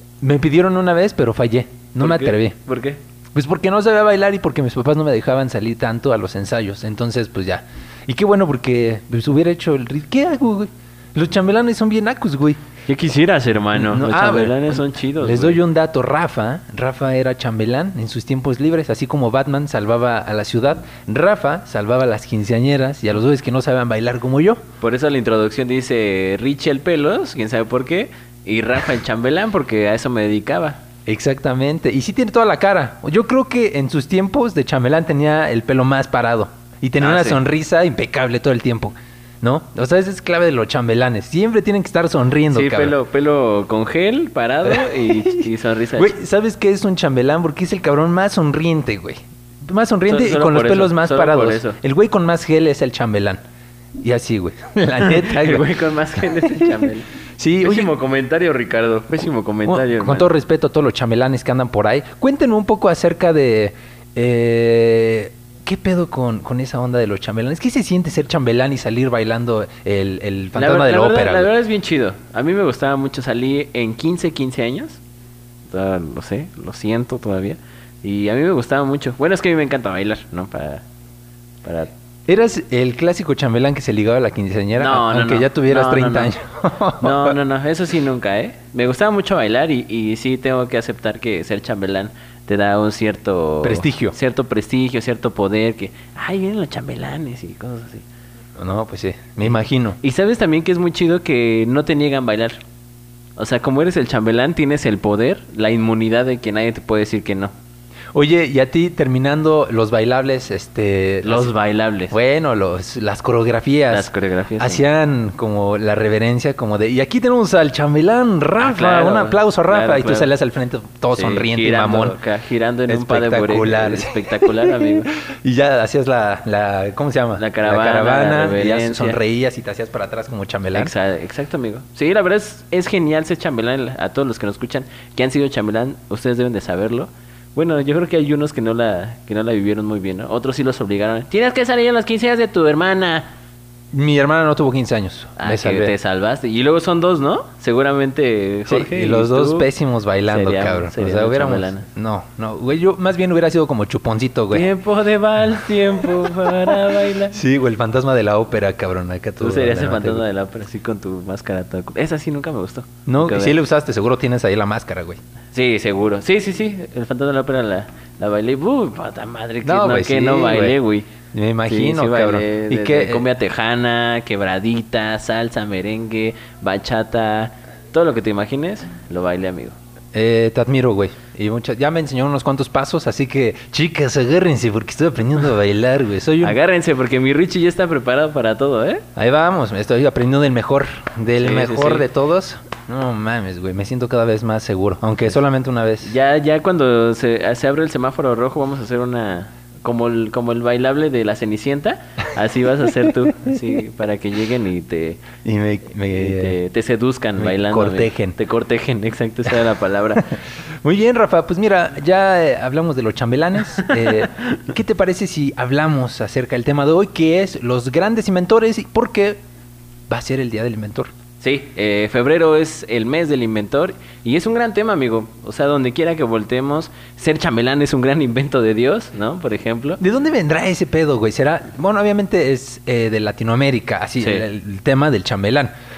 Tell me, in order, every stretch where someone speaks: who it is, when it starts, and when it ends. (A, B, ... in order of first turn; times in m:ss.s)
0:00.2-0:02.5 A
0:02.0-0:03.0 B
0:03.3-0:12.6 A
0:12.9-0:15.6 B
0:13.7-0:24.6 A
0:24.8-0:30.8 B
0:31.0-0:42.9 A
0:37.0-0:37.4 B
0:42.5-0:46.2 B
0:44.7-0:53.4 A
0:50.1-0:51.8 B
0:54.0-0:55.7 A
0:55.0-0:57.1 B
0:56.2-0:56.7 A
0:57.4-0:57.9 A
0:57.6-1:00.3 B
0:59.6-1:11.5 A
1:10.5-1:15.0 B
1:15.6-1:20.8 B
1:21.6-1:21.9 B
1:22.3-1:27.4 A
1:24.7-1:26.3 B
1:27.0-1:38.0 B
1:33.6-1:34.1 A
1:38.6-1:40.0 A
1:39.4-1:42.6 B
1:43.4-1:47.5 B
1:48.1-1:51.5 A
1:51.2-1:52.1 B
1:52.1-2:02.2 A
1:53.9-1:54.8 B
1:58.6-2:00.3 B
2:01.1-2:05.1 B
2:02.9-2:10.9 A
2:07.4-2:09.2 B
2:10.7-2:23.3 B
2:23.9-2:25.9 A
2:25.4-2:29.7 B
2:28.7-2:34.7 A
2:30.3-2:31.9 B
2:34.5-2:37.4 B
2:37.3-2:40.2 A
2:39.4-2:43.5 B
2:43.0-2:45.2 A
2:45.5-2:51.1 B
2:49.6-2:50.8 A
2:51.3-2:53.3 A
2:51.7-2:59.7 B
3:00.1-3:06.6 A
3:06.4-3:09.0 B
3:09.2-3:16.1 A
3:11.4-3:12.1 B
3:16.0-3:25.2 B
3:25.4-3:26.6 A
3:26.1-3:30.2 B
3:27.4-3:28.4 A
3:30.3-3:39.4 A
3:40.1-3:41.1 A
3:41.4-3:50.0 B
3:50.0-3:55.7 A
3:54.2-3:54.4 B